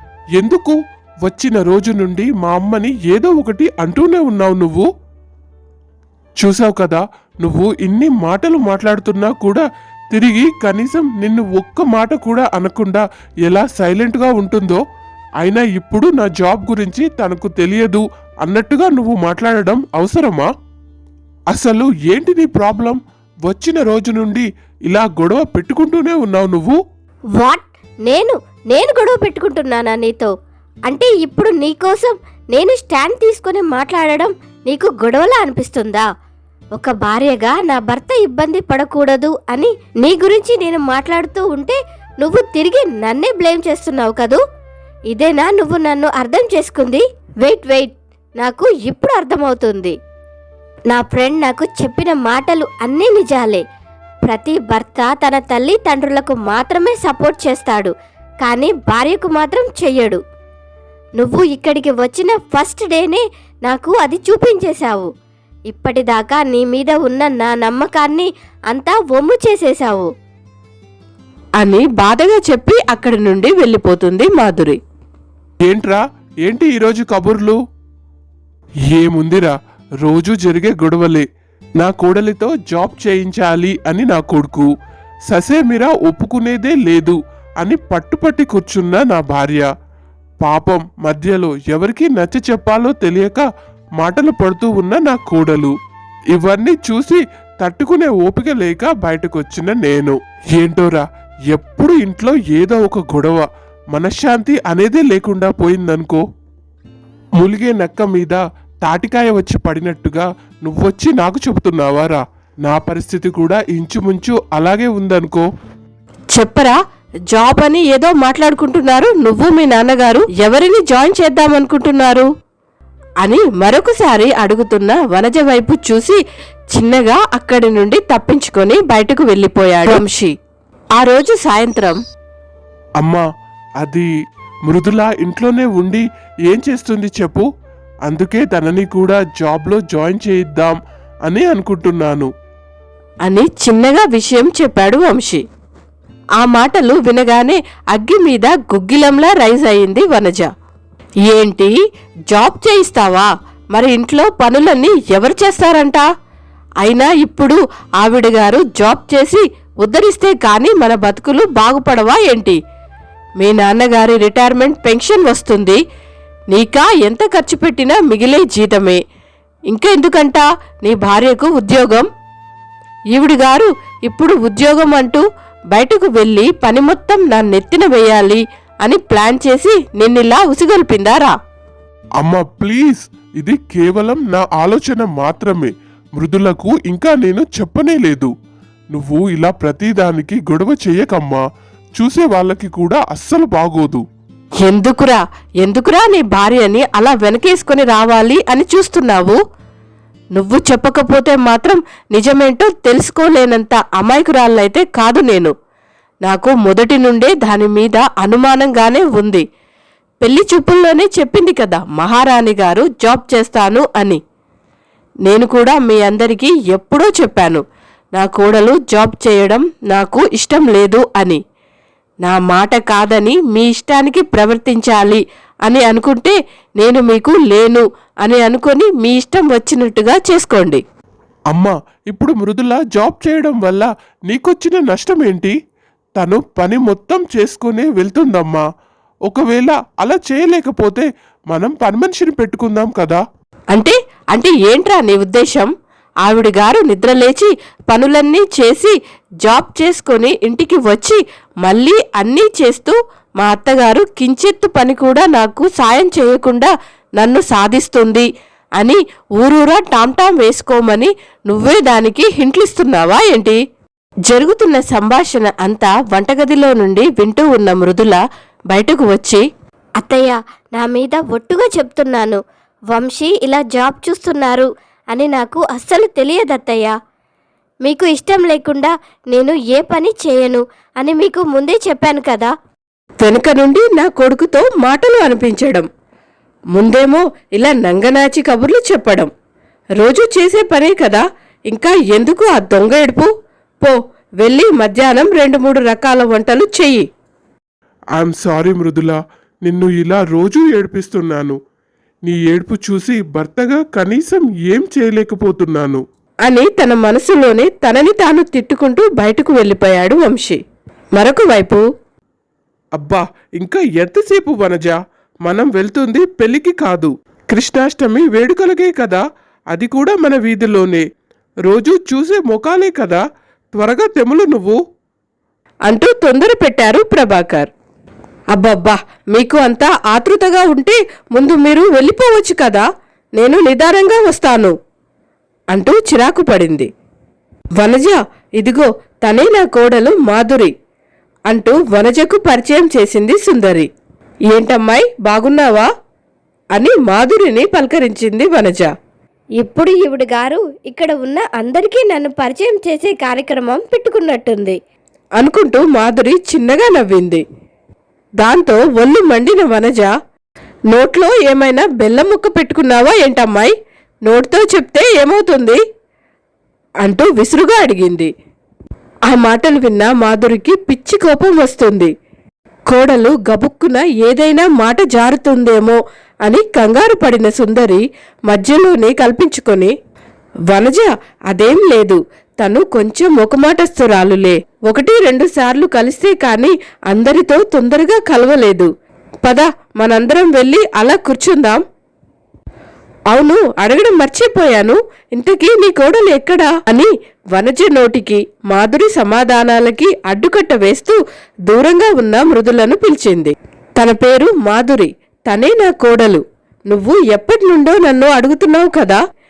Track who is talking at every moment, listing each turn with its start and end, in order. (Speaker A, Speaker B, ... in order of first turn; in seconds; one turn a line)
Speaker A: 0.4-4.9
Speaker A: 6.4-14.8
Speaker A: 15.4-20.5
Speaker A: 21.5-26.8
Speaker B: 27.4-30.3
Speaker B: 30.9-36.1
Speaker B: 36.8-44.4
Speaker B: 45.1-50.0
Speaker B: 50.9-53.6
Speaker B: 54.2-60.2
Speaker B: 61.2-65.1
Speaker B: 65.7-70.1
Speaker C: 71.6-74.8
Speaker A: 75.7-77.6
Speaker A: 78.9-81.2
Speaker A: 81.8-84.7
Speaker A: 85.3-89.7
Speaker A: 90.4-93.4
Speaker A: 94.0-95.7
Speaker A: 96.3-106.2
Speaker A: 107.4-115.5
Speaker C: 116.3-116.8
Speaker C: 117.3-122.3
Speaker C: 123.2-126.2
Speaker C: 126.7-130.3
Speaker C: 130.9-132.0
Speaker A: 133.0-133.2
Speaker A: 133.8-134.1
Speaker A: 134.7-137.4
Speaker A: 138.1-142.3
Speaker C: 143.2-145.4
Speaker C: 146.4-150.5
Speaker C: 151.3-151.7
Speaker C: 152.3-156.0
Speaker C: 156.8-162.6
Speaker C: 163.4-165.8
Speaker C: 166.5-169.0
Speaker C: 169.7-172.1
Speaker C: 173.1-181.3
Speaker A: 182.2-188.3
Speaker A: 188.9-191.4
Speaker A: 192.0-194.0
Speaker C: 194.6-199.4
Speaker C: 200.3-205.5
Speaker C: 206.2-209.4
Speaker C: 210.2-214.2
Speaker C: 215.2-217.6
Speaker C: 218.2-221.4
Speaker C: 222.2-230.8
Speaker A: 231.5-235.5
Speaker A: 236.2-238.6
Speaker A: 239.3-243.2
Speaker C: 243.7-245.7
Speaker C: 246.2-263.6
Speaker C: 264.3-269.4
Speaker B: 270.0-276.9
Speaker B: 277.8-282.5
Speaker C: 283.2-285.9
Speaker C: 286.7-289.3
Speaker C: 290.0-293.3
Speaker C: 293.8-297.0
Speaker A: 298.2-301.6
Speaker A: 302.2-306.0
Speaker C: 306.4-310.6
Speaker C: 311.1-311.8
Speaker A: 313.0-321.0
Speaker A: 321.6-323.2
Speaker A: 323.8-324.8
Speaker C: 325.9-327.7
Speaker C: 328.5-332.9
Speaker C: 333.4-334.7
Speaker C: 335.7-336.9
Speaker C: 337.8-340.7
Speaker C: 341.5-343.9
Speaker C: 344.5-345.9
Speaker C: 346.7-348.9
Speaker B: 349.6-354.8
Speaker C: 355.4-357.4
Speaker C: 358.4-360.1
Speaker C: 360.9-365.8
Speaker C: 367.0-368.3
Speaker C: 369.3-372.1
Speaker C: 372.9-379.9
Speaker C: 380.7-388.9
Speaker C: 389.4-391.8
Speaker C: 393.3-409.2